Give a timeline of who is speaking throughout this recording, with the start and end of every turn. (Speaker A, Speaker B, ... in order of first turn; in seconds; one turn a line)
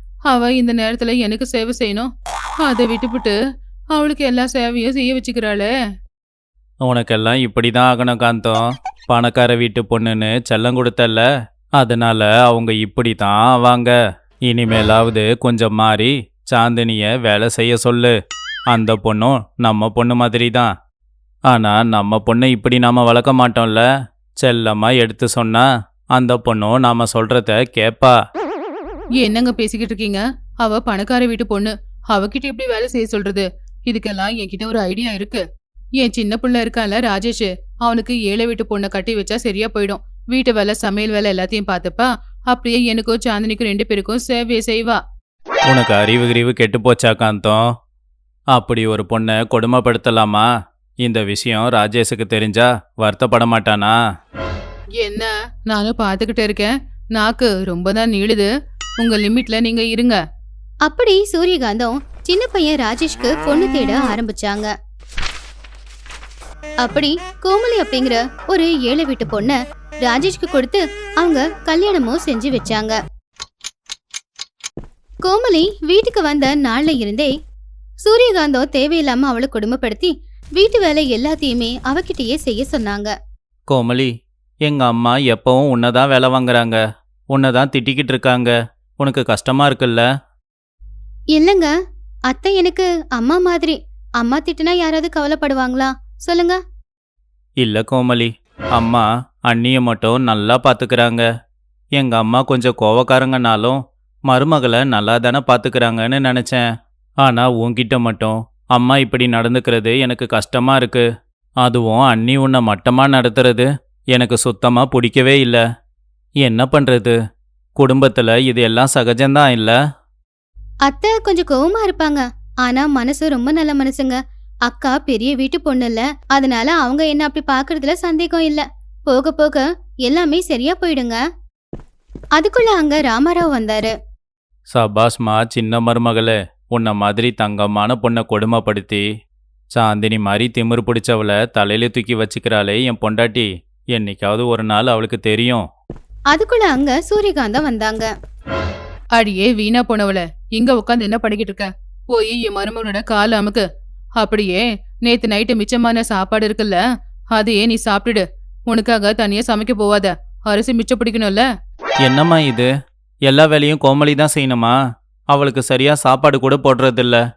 Speaker A: 0.3-2.1
Speaker A: 2.6-3.4
Speaker A: 3.9-5.7
Speaker B: 6.8-11.3
Speaker B: 11.8-13.9
Speaker B: 14.5-18.1
Speaker B: 18.7-20.7
Speaker B: 21.5-23.9
Speaker B: 24.4-28.2
Speaker A: 29.2-35.5
Speaker A: 36.0-45.0
Speaker B: 45.7-47.7
Speaker B: 48.5-50.5
Speaker B: 51.0-54.0
Speaker A: 55.0-60.2
Speaker C: 60.9-64.7
Speaker C: 66.8-73.0
Speaker C: 75.2-77.3
Speaker C: 78.0-83.1
Speaker B: 83.7-84.1
Speaker B: 84.7-86.8
Speaker B: 87.3-90.1
Speaker C: 91.3-91.7
Speaker C: 92.3-96.6
Speaker B: 97.6-101.3
Speaker B: 102.0-106.7
Speaker B: 107.2-111.0
Speaker B: 111.6-115.6
Speaker B: 116.4-117.2
Speaker B: 117.8-119.8
Speaker C: 120.9-131.2
Speaker C: 132.4-134.0
Speaker B: 134.7-139.1
Speaker B: 139.8-145.7
Speaker C: 146.3-148.1
Speaker A: 149.2-153.7
Speaker A: 154.2-156.8
Speaker A: 157.3-161.5
Speaker B: 162.1-162.7
Speaker B: 163.3-164.8
Speaker B: 165.3-167.2